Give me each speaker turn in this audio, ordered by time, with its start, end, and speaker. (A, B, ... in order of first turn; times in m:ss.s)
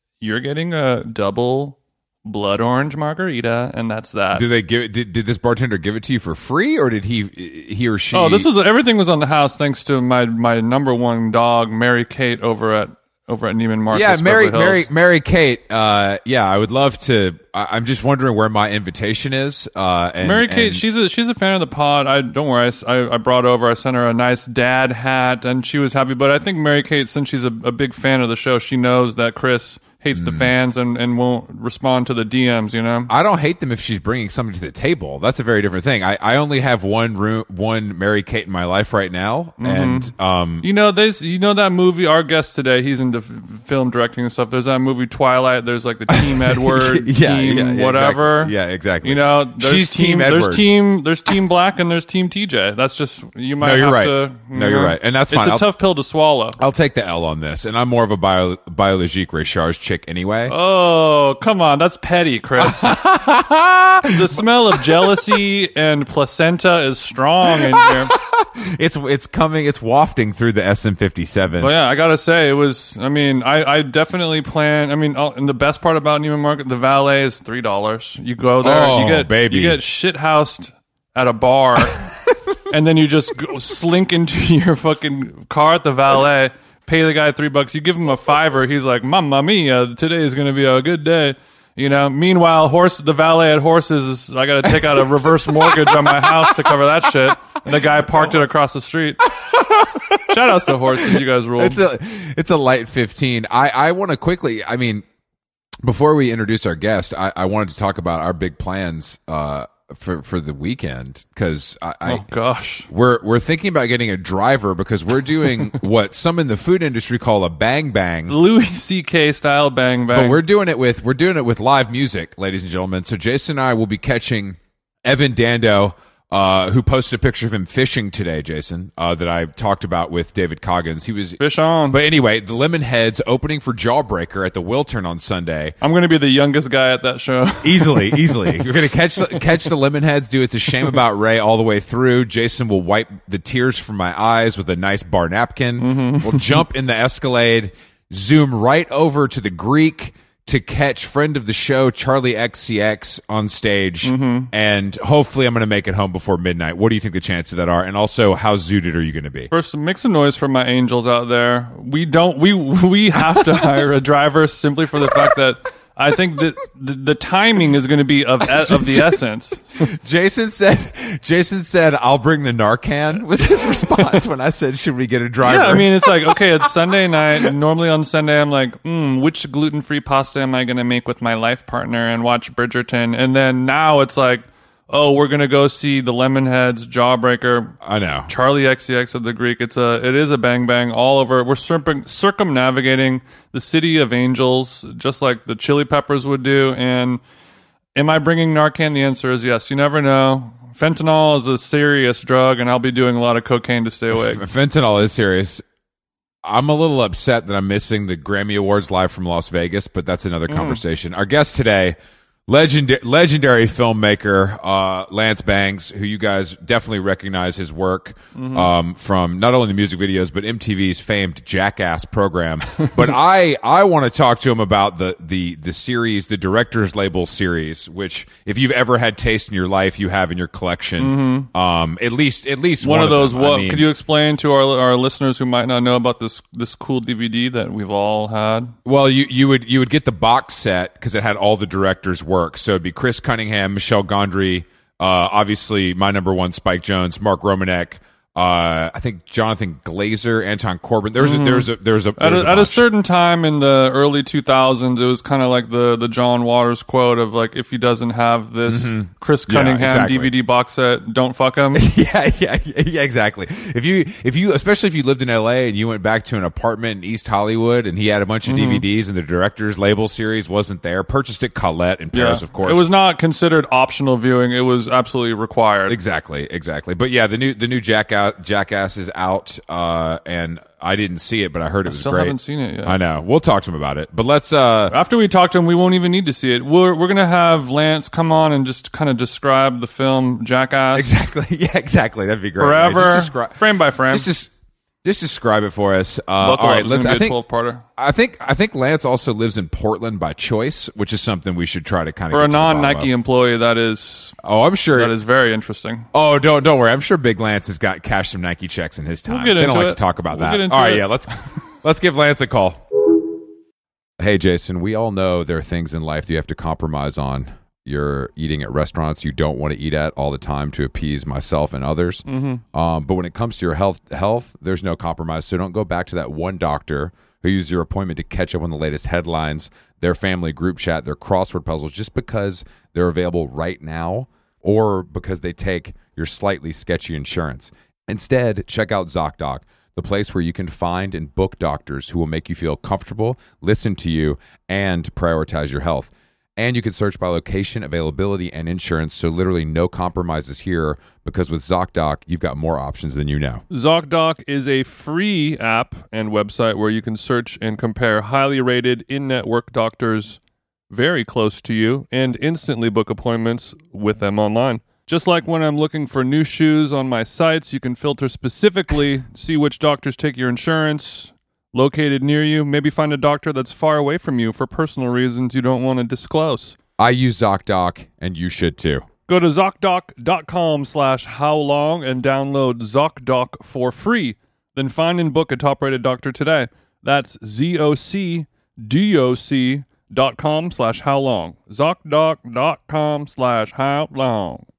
0:00.2-0:04.4 A
0:04.3-0:08.5 B
0:08.1-0:14.8 A
0:13.9-0:20.8 B
0:20.2-0:33.1 A
0:30.2-0:30.5 B
0:33.1-0:40.6 B
0:39.6-0:56.6 A
0:46.1-0:50.7 B
0:53.6-0:55.7 B
0:56.6-1:00.5 B
1:00.5-1:03.0 A
1:02.6-1:04.4 B
1:04.1-1:08.1 A
1:07.7-1:11.7 B
1:11.6-1:22.1 A
1:18.6-1:19.8 B
1:22.6-1:39.2 A
1:35.6-1:36.6 B
1:39.4-1:40.2 B
1:40.3-1:41.8 A
1:41.0-1:45.0 B
1:45.8-1:52.2 B
1:52.0-1:52.9 A
1:52.9-1:58.4 B
1:58.3-2:00.4 A
2:00.1-2:11.4 B
2:11.4-2:12.0 A
2:11.9-2:15.7 B
2:15.8-2:18.7 A
2:17.6-2:39.5 B
2:25.8-2:26.6 A
2:34.0-2:34.5 A
2:39.5-2:49.6 A
2:48.5-2:49.2 B
2:49.8-2:56.4 B
2:55.4-3:07.8 A
3:07.8-3:08.3 B
3:08.3-3:17.2 A
3:18.0-3:24.4 A
3:24.1-3:25.6 B
3:26.4-3:32.0 B
3:30.5-3:30.8 A
3:32.5-3:53.9 B
3:38.3-3:38.7 A
3:51.0-3:51.5 A
3:52.8-3:58.7 A
3:58.8-4:12.8 B
4:11.2-4:21.9 A
4:18.7-4:20.3 B
4:21.7-4:32.9 B
4:28.4-4:28.8 A
4:32.1-4:36.0 A
4:35.9-4:44.9 B
4:41.9-4:43.0 A
4:44.9-4:51.1 A
4:50.9-4:54.5 B
4:52.6-4:54.3 A
4:55.0-4:57.4 B
4:56.4-4:57.8 A
4:58.0-5:03.1 B
5:02.3-5:04.4 A
5:04.4-5:05.1 B
5:04.9-5:06.1 A
5:06.1-5:12.8 B
5:09.3-5:11.1 A
5:14.2-5:53.6 B
5:22.3-5:22.6 A
5:53.7-6:16.8 A
6:17.0-6:19.1 B
6:19.3-6:34.6 A